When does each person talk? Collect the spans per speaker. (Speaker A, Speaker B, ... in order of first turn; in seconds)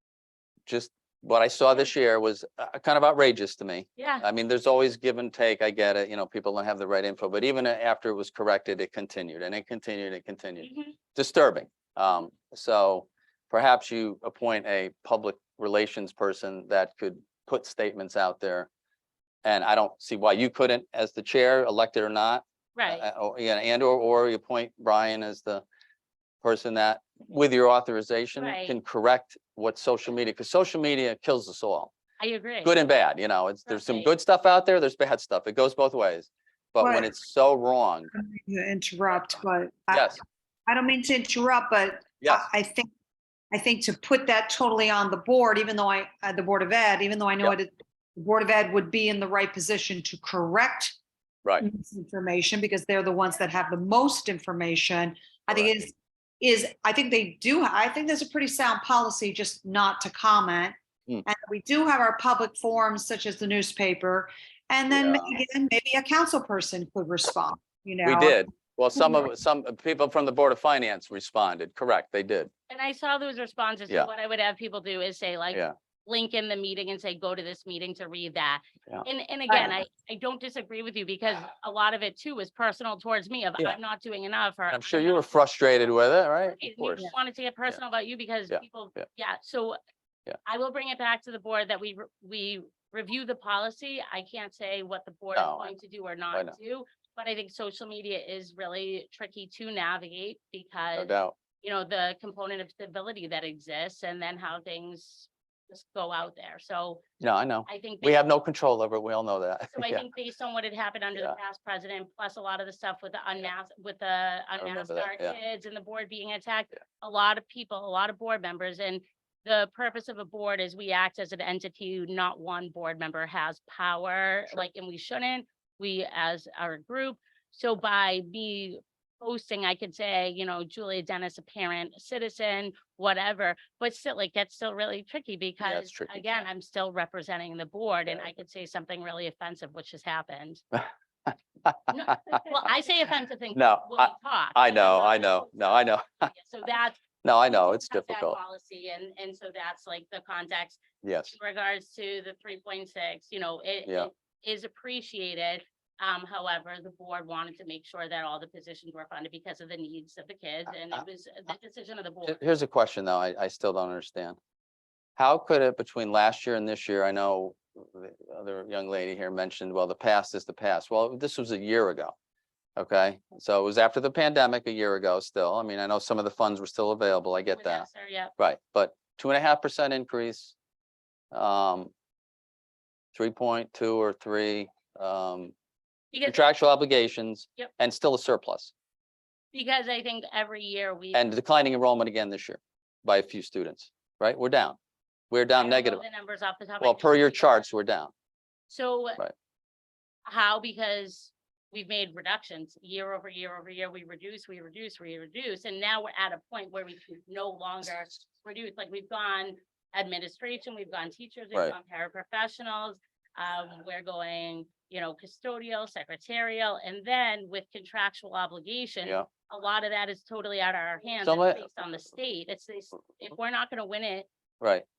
Speaker A: 0.7-18.7, 19.4-25.6, 26.4-31.9, 32.6-38.1, 39.9-40.2, 64.9-65.4, 68.0-72.5, 84.7-87.1, 88.5-89.0, 95.3-95.7, 101.0-101.4, 107.2-110.1, 114.6-115.4, 135.6-136.2, 140.7-142.1, 143.5-146.3, 147.2-148.4, 151.0-151.3, 162.3-164.4, 165.2-172.1, 172.8-177.9, 178.4-180.6, 181.3-181.9, 183.2-185.5, 186.2-188.7, 191.1-194.8, 195.3-196.0, 196.8-198.1, 221.2-221.7, 224.6-224.8
Speaker B: 4.0-4.2, 10.6-11.0, 22.8-23.1, 28.4-28.8, 32.2-32.7, 33.7-34.1, 72.7-85.4, 86.4-89.8, 90.5-107.0, 107.7-108.3, 109.7-140.6, 141.9-162.4, 177.6-178.3, 186.1-186.4, 189.5-191.2, 195.6-197.7, 198.7-199.2, 200.3-224.3
Speaker C: 36.8-37.1, 38.1-42.9, 43.5-51.0, 51.6-68.4, 69.0-69.3, 79.5-79.8